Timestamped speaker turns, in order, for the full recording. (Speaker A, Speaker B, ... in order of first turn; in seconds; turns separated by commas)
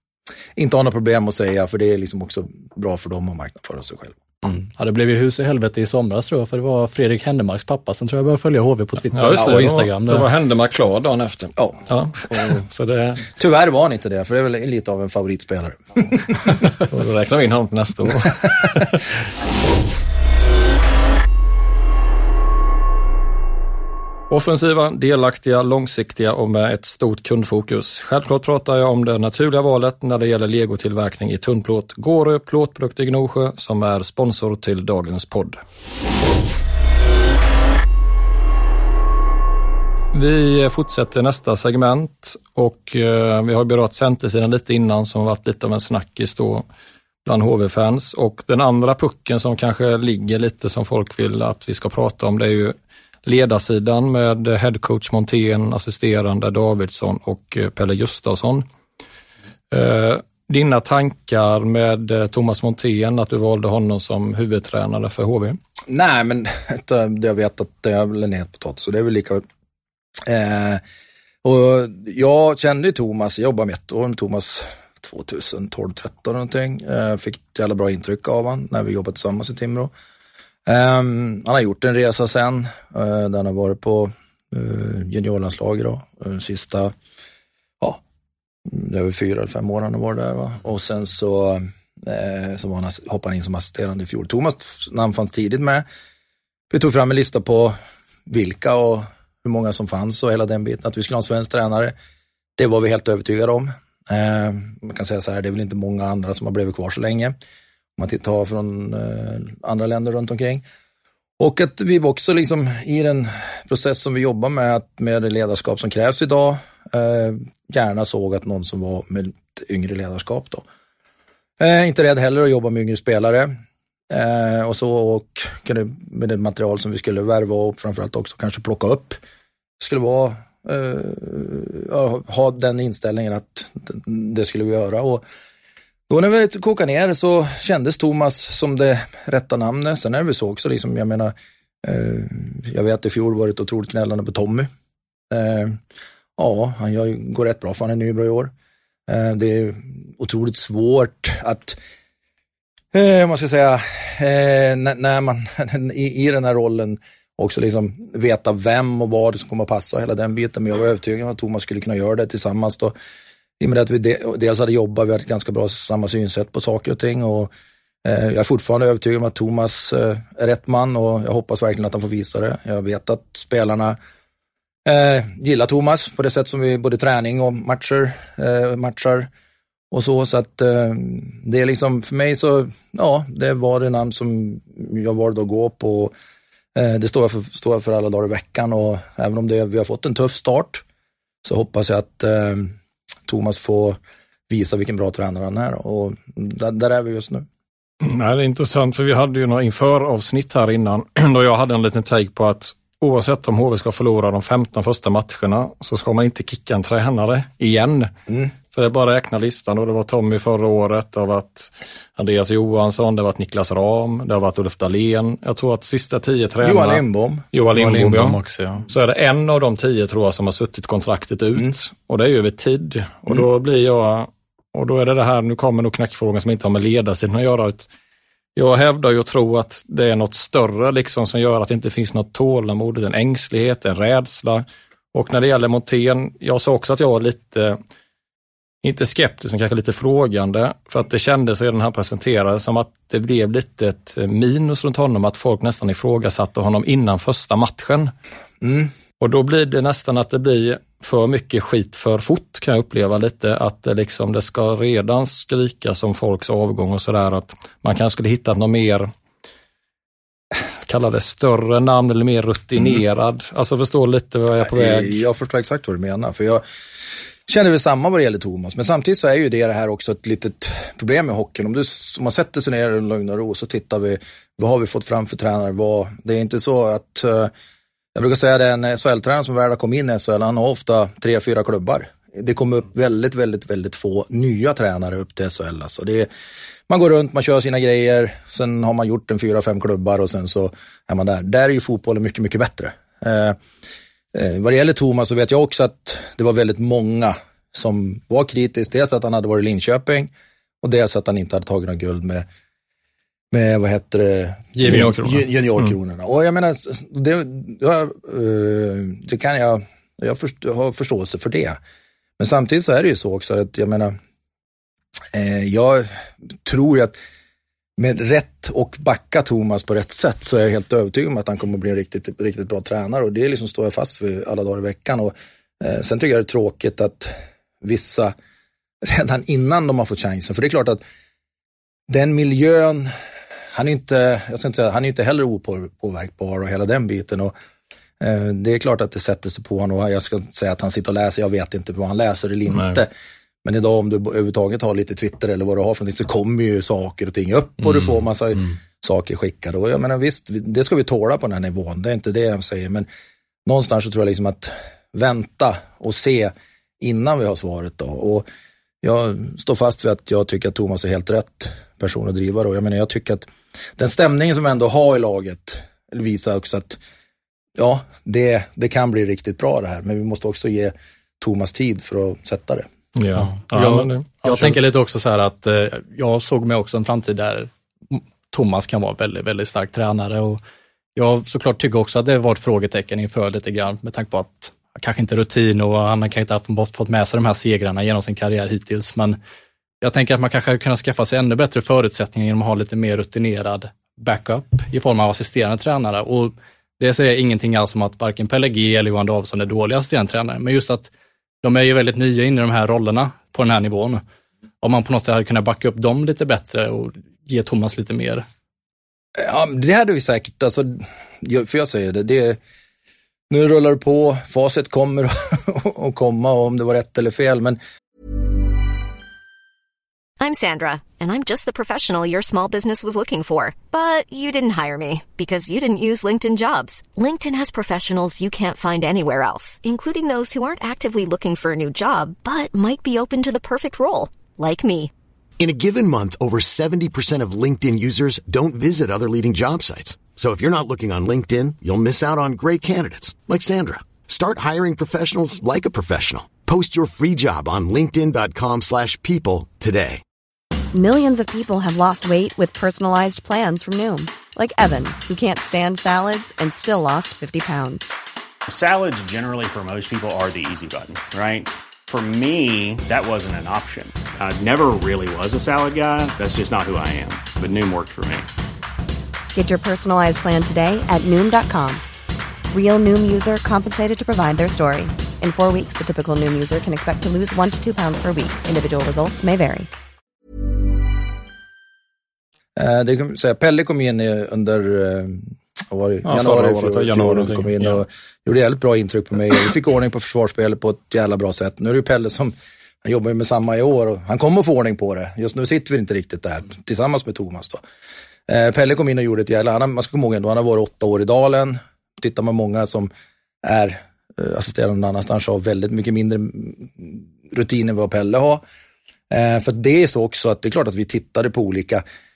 Speaker A: 0.6-4.3, Speaker B: 4.4-10.3, Speaker C: 9.1-13.3, Speaker A: 11.6-12.6, Speaker A: 13.3-16.6, Speaker C: 16.9-19.1, Speaker C: 24.3-35.6, Speaker C: 40.1-46.7, Speaker C: 47.3-58.7, Speaker C: 59.7-65.6, Speaker A: 65.9-69.4, Speaker A: 70.2-70.8, Speaker A: 71.4-79.9, Speaker A: 80.7-86.9, Speaker A: 88.7-95.8, Speaker A: 96.7-97.8, Speaker A: 98.3-101.9, Speaker A: 102.6-107.3, Speaker A: 108.0-110.7, Speaker A: 111.4-120.7, Speaker A: 121.6-123.6, Speaker A: 124.1-129.2, Speaker A: 129.8-135.2, Speaker A: 136.1-144.7, Speaker A: 145.3-145.8, Speaker A: 146.4-148.5, Speaker A: 149.1-151.8, Speaker A: 152.9-162.9, Speaker A: 163.6-167.5, Speaker A: 168.1-174.0, Speaker A: 174.8-179.3, Speaker A: 179.9-186.1, Speaker A: 186.8-190.8, Speaker A: 191.4-192.8, Speaker A: 193.3-197.5, Speaker C: 198.0-208.1, Speaker C: 208.7-227.9, Speaker A: 216.6-217.5, Speaker B: 217.7-218.9, Speaker C: 228.6-237.8, Speaker C: 238.8-248.1, Speaker A: 248.6-248.9, Speaker C: 249.2-259.1, Speaker C: 260.9-265.2, Speaker A: 264.6-266.6, Speaker A: 267.5-277.5, Speaker A: 278.1-286.3, Speaker A: 286.9-293.6, Speaker A: 294.3-300.3, Speaker A: 300.8-302.4, Speaker A: 303.5-311.8, Speaker B: 304.8-305.1, Speaker C: 304.8-305.9, Speaker A: 312.4-314.1, Speaker A: 315.3-317.1, Speaker A: 318.0-328.3, Speaker A: 329.0-331.0, Speaker A: 332.1-333.1, Speaker A: 333.7-337.5, Speaker A: 338.2-343.1, Speaker C: 342.7-343.0, Speaker A: 343.6-353.1, Speaker A: 353.6-358.5, Speaker A: 359.0-367.0, Speaker A: 367.8-372.9, Speaker C: 373.2-374.8, Speaker B: 373.4-380.6, Speaker B: 381.2-389.4, Speaker B: 390.0-401.1, Speaker B: 401.6-404.2, Speaker B: 404.8-408.4, Speaker A: 409.4-412.6, Speaker A: 413.5-417.8, Speaker D: 420.4-435.1, Speaker E: 435.6-450.2, Speaker F: 450.9-458.1, Speaker G: 458.7-468.5, Speaker F: 469.5-472.0, Speaker F: 472.7-479.9, Speaker A: 482.8-497.8, Speaker C: 486.3-488.0, Speaker A: 498.5-503.1, Speaker A: 503.6-508.6, Speaker A: 509.3-512.0